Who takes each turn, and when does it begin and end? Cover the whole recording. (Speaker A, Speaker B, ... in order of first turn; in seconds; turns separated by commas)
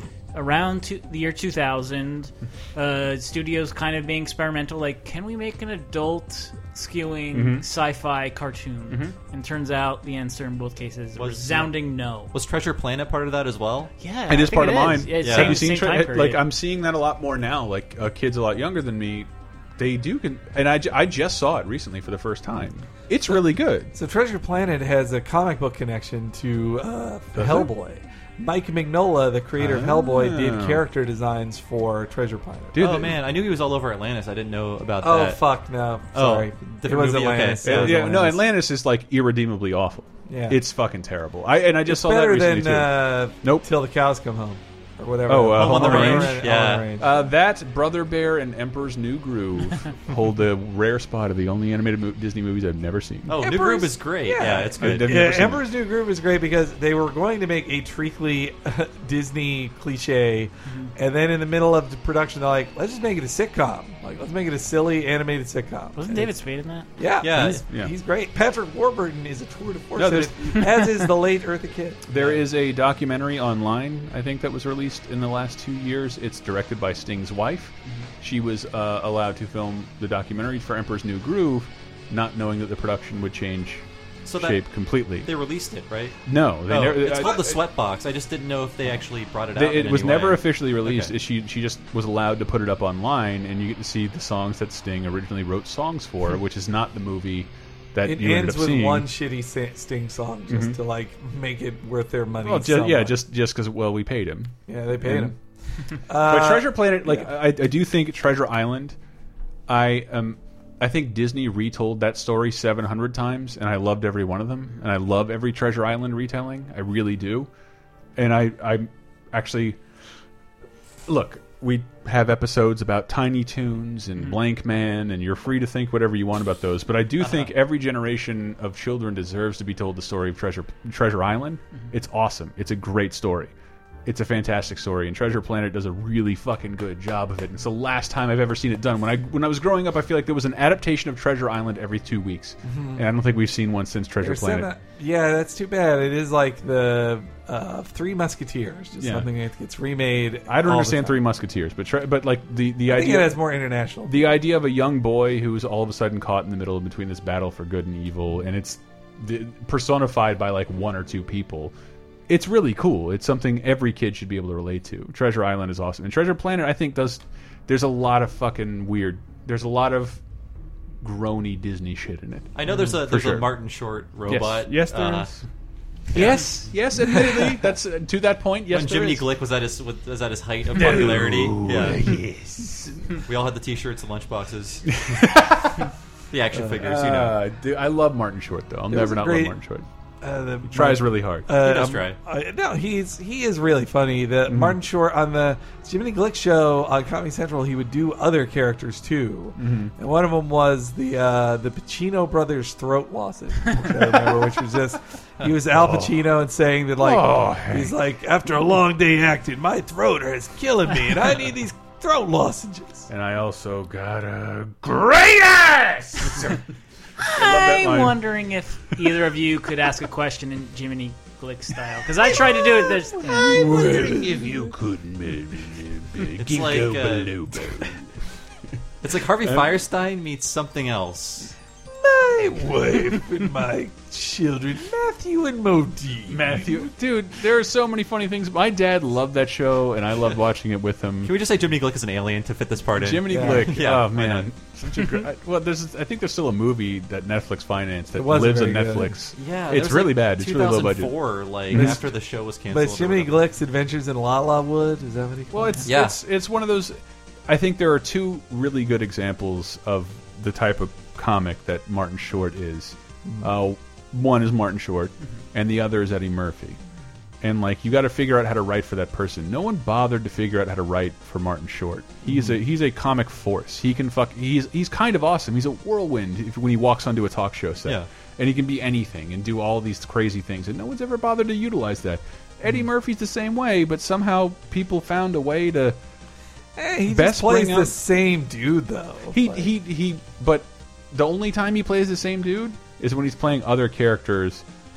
Speaker A: 0.3-12.3, Speaker B: 7.3-7.7, Speaker B: 8.9-9.2, Speaker C: 11.2-11.8, Speaker C: 12.3-13.9, Speaker A: 14.0-16.5, Speaker B: 14.3-23.9, Speaker C: 15.2-15.7, Speaker D: 23.9-32.8, Speaker B: 27.4-27.7, Speaker B: 29.6-30.8, Speaker B: 32.7-33.2, Speaker C: 32.8-35.4, Speaker D: 35.0-38.5, Speaker C: 36.1-38.0, Speaker B: 37.6-43.7, Speaker D: 40.3-40.6, Speaker D: 41.9-47.2, Speaker B: 45.3-53.4, Speaker C: 45.5-47.0, Speaker C: 53.3-55.1, Speaker D: 53.4-66.3, Speaker B: 54.8-55.7, Speaker A: 66.0-66.9, Speaker D: 67.0-72.2, Speaker C: 67.2-67.6, Speaker B: 67.3-67.9, Speaker B: 70.0-70.9, Speaker B: 72.1-85.3, Speaker C: 84.3-91.1, Speaker B: 86.3-87.6, Speaker B: 89.5-99.1, Speaker D: 98.0-103.2, Speaker B: 100.5-100.8, Speaker B: 102.4-105.3, Speaker D: 104.7-105.4, Speaker D: 106.0-107.3, Speaker B: 106.1-109.0, Speaker B: 109.7-117.5, Speaker B: 118.2-119.8, Speaker B: 121.1-133.5, Speaker C: 127.2-127.5, Speaker B: 134.1-144.7, Speaker D: 142.7-143.0, Speaker D: 144.2-151.2, Speaker B: 149.0-149.3, Speaker B: 150.5-153.4, Speaker D: 152.9-154.2, Speaker B: 154.1-161.7, Speaker B: 162.3-170.2, Speaker B: 171.0-173.5, Speaker C: 172.6-175.3, Speaker B: 174.3-175.4, Speaker C: 176.1-176.6, Speaker B: 176.1-179.3, Speaker C: 178.7-182.2, Speaker B: 180.7-183.2, Speaker C: 183.2-185.3, Speaker B: 184.9-185.9, Speaker C: 186.3-187.4, Speaker B: 186.8-189.9, Speaker D: 188.9-189.6, Speaker D: 190.2-213.1, Speaker B: 190.7-191.5, Speaker C: 191.6-192.2, Speaker B: 194.5-194.8, Speaker B: 199.6-199.9, Speaker B: 205.7-206.1, Speaker B: 207.0-207.9, Speaker B: 213.1-216.6, Speaker A: 217.2-223.9, Speaker B: 217.2-218.2, Speaker B: 223.2-228.1, Speaker D: 223.7-224.5, Speaker C: 226.4-227.3, Speaker C: 229.0-231.5, Speaker B: 229.4-229.8, Speaker D: 231.9-236.8, Speaker B: 236.3-241.3, Speaker C: 241.2-244.5, Speaker B: 243.0-252.0, Speaker D: 243.3-243.7, Speaker D: 248.1-249.1, Speaker C: 249.4-253.4, Speaker D: 251.7-252.1, Speaker D: 252.7-255.8, Speaker B: 255.5-266.8, Speaker C: 255.8-256.2, Speaker B: 267.4-286.0, Speaker D: 272.3-272.6, Speaker D: 286.8-289.7, Speaker B: 287.1-288.0, Speaker B: 289.3-294.6